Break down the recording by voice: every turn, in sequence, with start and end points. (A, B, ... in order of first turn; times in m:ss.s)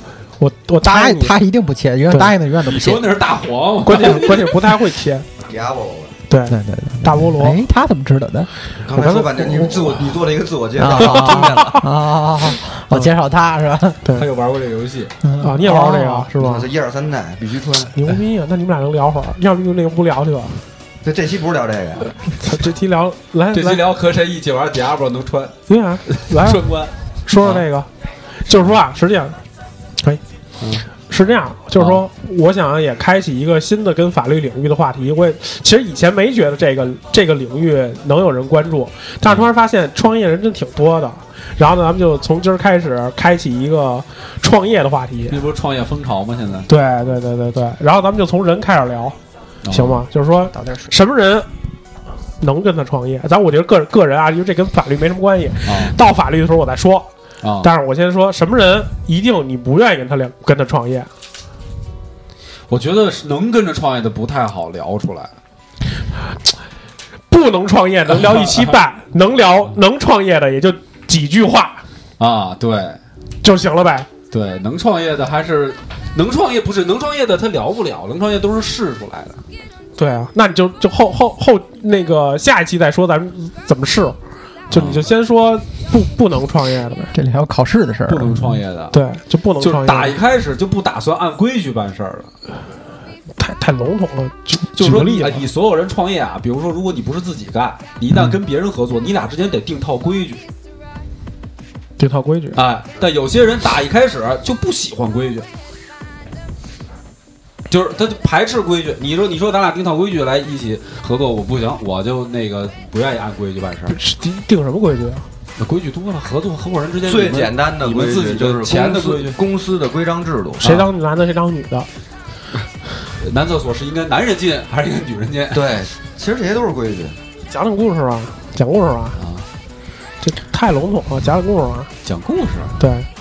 0:00.4-0:01.4 A
0:00.8-0:03.1 B
0:02.6-0:04.8 C
0:03.8-0:05.3 A
0:05.5-0:06.1 D
0:06.3-0:07.6 A
0:06.5-0:08.5 B
0:08.9-0:11.8 D
0:08.9-0:09.9 A
0:10.8-0:14.0 B
0:11.0-0:11.6 A
0:14.1-0:15.1 C
0:15.2-0:16.3 B
0:15.4-0:16.7 A
0:16.4-0:18.0 D
0:18.0-0:20.6 A
0:21.0-0:22.1 D
0:22.4-0:23.8 A
0:23.5-0:25.6 C
0:25.7-0:26.6 A
0:26.1-0:27.6 C
0:27.3-0:27.9 A
0:28.5-0:29.4 A
0:31.1-0:45.4 A
0:45.3-0:46.7 C
0:46.7-0:49.2 A
0:49.7-0:50.0 C
0:49.7-0:51.5 A
0:50.6-0:50.9 B
0:52.4-0:57.1 A
0:55.6-0:55.9 C
0:57.4-0:57.7 C
0:57.6-1:01.1 A
1:02.7-1:05.3 C
1:07.3-1:11.8 A
1:08.3-1:08.7 C
1:12.2-1:13.0 C
1:13.4-1:14.1 A
1:14.3-1:19.4 C
1:20.0-1:24.2 A
1:24.7-1:25.1 C
1:24.7-1:27.1 A
1:27.1-1:28.6 B
1:28.1-1:29.0 C
1:28.9-1:30.1 A
1:29.6-1:32.3 C
1:33.4-1:35.5 A
1:34.7-1:40.4 C
1:42.0-1:42.6 A
1:42.6-1:45.5 C
1:47.7-1:54.0 C
1:53.9-1:55.3 A
1:55.6-1:59.4 C
1:57.0-2:00.8 D
2:00.6-2:01.9 A
2:03.2-2:05.7 C
2:05.5-2:07.2 D
2:07.5-2:09.2 A
2:09.2-2:09.4 C
2:10.2-2:11.9 A
2:12.0-2:12.8 C
2:12.8-2:13.1 A